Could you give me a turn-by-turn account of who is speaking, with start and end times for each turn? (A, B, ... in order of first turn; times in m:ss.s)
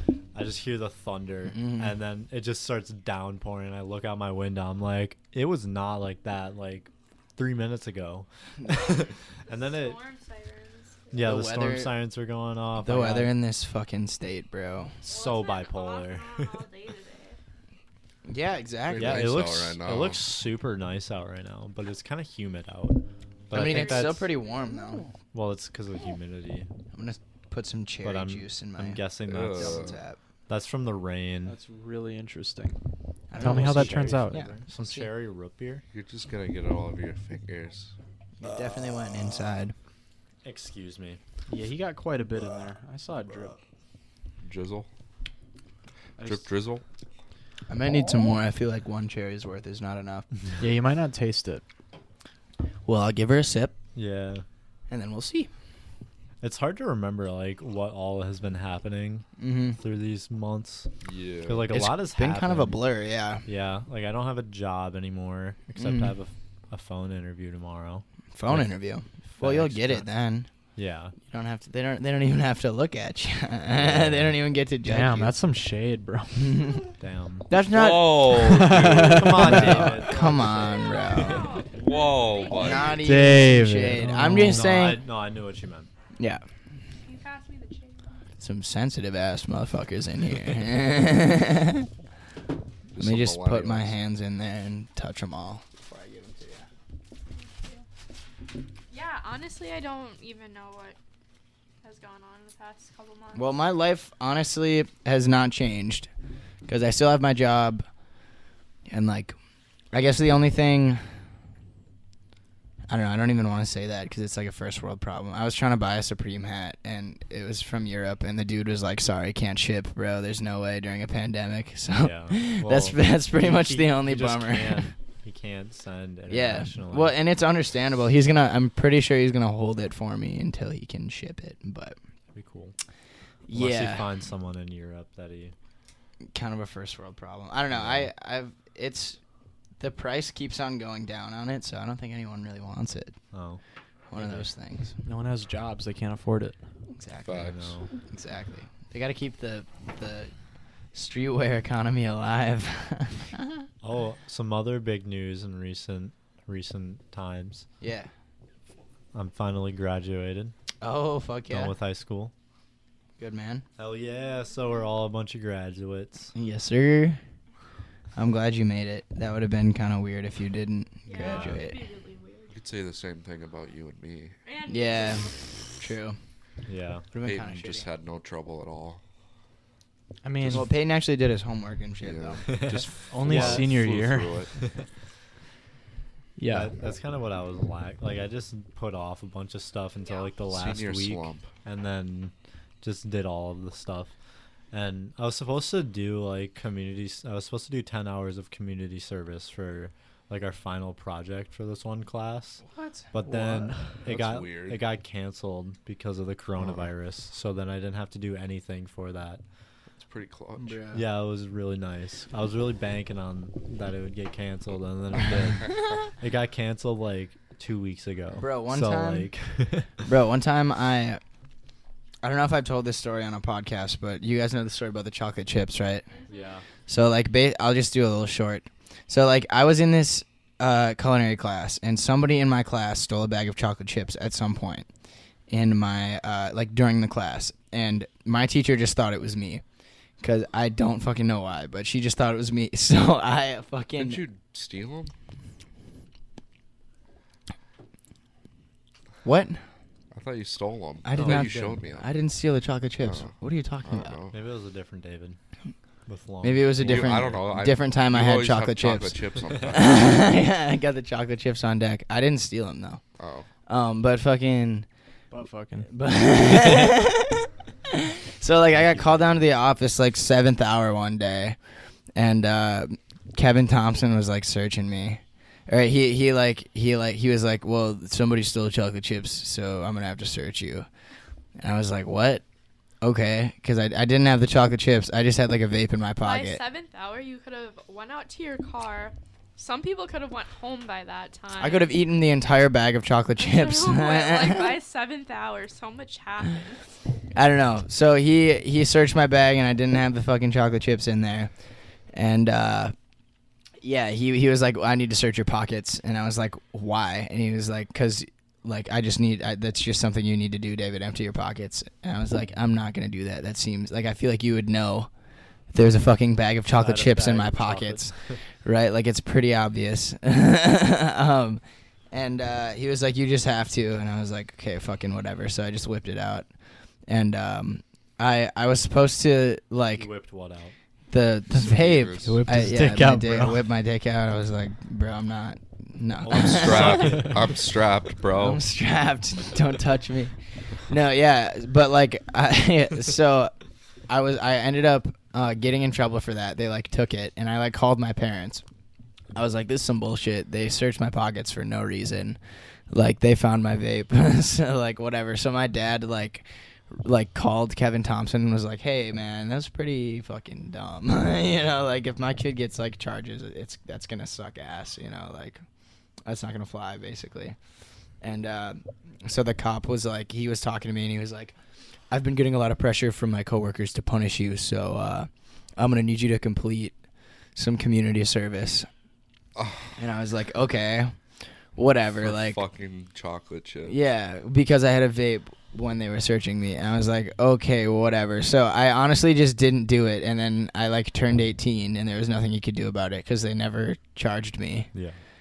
0:00.3-0:10.0 A
0:01.5-0:02.0 B
0:08.6-0:09.0 B
0:09.5-0:11.4 C
0:11.1-0:13.4 A
0:11.2-0:11.9 B
0:12.8-0:15.0 B
0:15.0-0:17.4 C
0:15.1-0:16.6 A
0:18.3-0:19.5 B
0:18.9-0:20.2 D
0:19.0-0:24.3 A
0:23.5-0:25.1 B
0:23.5-0:24.2 C
0:25.3-0:26.7 A
0:26.9-0:30.2 B
0:28.0-0:30.0 A
0:29.3-0:30.0 D
0:30.5-0:31.6 A
0:31.4-0:32.8 E
0:33.3-0:35.1 B
0:33.4-0:34.4 E
0:33.4-0:35.8 A
0:35.9-0:37.9 D
0:38.4-0:39.7 B
0:40.4-0:41.2 A
0:41.5-0:43.6 E
0:44.4-0:44.9 D
0:46.2-0:46.5 E
0:46.2-0:46.8 D
0:47.7-0:50.2 B
0:50.6-0:51.6 E
0:52.9-0:53.8 B
0:54.0-0:54.4 A
0:54.9-0:55.5 B
0:56.4-1:00.9 A
0:59.4-0:59.8 B
1:01.0-1:01.7 D
1:01.4-1:02.8 A
1:01.7-1:03.4 B
1:03.5-1:08.7 A
1:05.8-1:06.1 B
1:08.4-1:10.5 B
1:09.3-1:10.1 A
1:10.8-1:11.2 A
1:11.2-1:15.3 B
1:13.8-1:14.4 A
1:14.8-1:16.7 E
1:16.4-1:16.9 B
1:17.0-1:17.5 A
1:17.5-1:21.6 B
1:17.7-1:19.6 D
1:18.4-1:20.0 E
1:19.1-1:21.6 A
1:20.6-1:23.2 C
1:21.7-1:23.0 D
1:22.6-1:25.0 B
1:23.0-1:24.9 E
1:24.5-1:25.9 A
1:26.2-1:26.4 B
1:27.0-1:28.2 C
1:28.4-1:31.9 B
1:32.9-1:34.0 D
1:33.0-1:36.7 B
1:37.4-1:37.8 C
1:38.9-1:41.0 C
1:41.8-1:43.5 C
1:43.4-1:46.1 B
1:46.7-1:47.9 B
1:48.9-1:49.4 B
1:49.9-1:51.0 B
1:52.9-2:04.9 B
2:02.0-2:07.2 A
2:06.3-2:12.0 B
2:12.3-2:12.8 A
2:13.5-2:14.1 B
2:13.5-2:15.5 A
2:16.3-2:19.2 B
2:17.7-2:18.0 D
2:19.8-2:23.2 B
2:23.3-2:23.6 A
2:24.1-2:25.0 B
2:24.2-2:24.5 A
2:25.0-2:26.6 E
2:26.9-2:27.5 B
2:27.3-2:27.7 D
2:27.3-2:27.9 A
2:28.1-2:30.3 B
2:30.9-2:33.6 B
2:33.8-2:37.7 A
2:37.8-2:38.1 B
2:39.1-2:40.5 A
2:40.8-2:41.7 B
2:41.5-2:42.3 A
2:43.2-2:43.6 B
2:43.8-2:46.3 A
2:46.4-2:47.2 B
2:48.2-2:51.8 B
2:51.1-2:52.5 C
2:51.2-2:51.6 A
2:52.5-2:54.4 D
2:54.4-2:55.7 C
2:54.7-2:56.2 B
2:56.7-2:57.1 A
2:57.1-2:57.9 B
2:57.2-2:59.0 D
3:00.2-3:00.7 E
3:00.5-3:02.4 B
3:02.0-3:04.5 D
3:02.5-3:03.7 A
3:03.1-3:04.5 E
3:04.6-3:04.8 A
3:06.4-3:06.7 E
3:06.5-3:14.1 A
3:10.0-3:10.3 C
3:10.5-3:11.5 D
3:14.7-3:29.4 A
3:22.8-3:23.1 B
3:24.0-3:24.8 D
3:26.6-3:26.9 D
3:30.0-3:30.8 D
3:30.6-3:31.0 B
3:30.9-3:40.0 A
3:38.4-3:39.3 B
3:40.1-3:41.2 B
3:42.2-3:46.1 B
3:46.1-3:46.6 C
3:46.3-3:46.6 A
3:46.9-3:54.9 B
3:55.5-3:59.6 B
4:00.2-4:04.2 B
4:04.0-4:05.1 D
4:09.2-4:09.6 B
4:10.1-4:12.1 D
4:11.0-4:14.2 B
4:11.2-4:11.5 A
4:13.0-4:14.4 D
4:14.3-4:15.4 A
4:16.1-4:17.5 A
4:16.4-4:19.2 B
4:16.8-4:20.2 D
4:19.4-4:19.8 A
4:19.7-4:23.0 B
4:23.2-4:23.5 D
4:23.7-4:24.9 B
4:25.3-4:25.9 E
4:25.9-4:31.6 B
4:32.2-4:40.9 B
4:41.6-4:42.4 B
4:43.0-4:46.6 B
4:46.2-4:51.9 C
4:51.6-4:54.8 B
4:53.4-4:56.8 C
4:57.4-5:01.5 B
5:02.1-5:02.9 B
5:03.8-5:15.1 B
5:15.7-5:26.5 B
5:16.7-5:18.4 A
5:27.1-5:30.1 B
5:30.0-5:30.8 A
5:31.1-5:37.3 B
5:31.5-5:32.4 D
5:32.2-5:33.6 E
5:36.2-5:37.6 A
5:36.3-5:38.6 D
5:38.3-5:40.4 B
5:40.9-5:43.5 B
5:44.1-5:48.6 B
5:49.3-5:52.4 B
5:52.9-6:05.6 B
6:06.2-6:07.6 B
6:08.2-6:11.6 B
6:12.1-6:17.0 B
6:17.6-6:18.9 B
6:19.6-6:19.9 D
6:20.0-6:21.2 B
6:21.8-6:22.6 B
6:22.2-6:24.0 D
6:23.8-6:34.9 B
6:34.9-6:35.2 A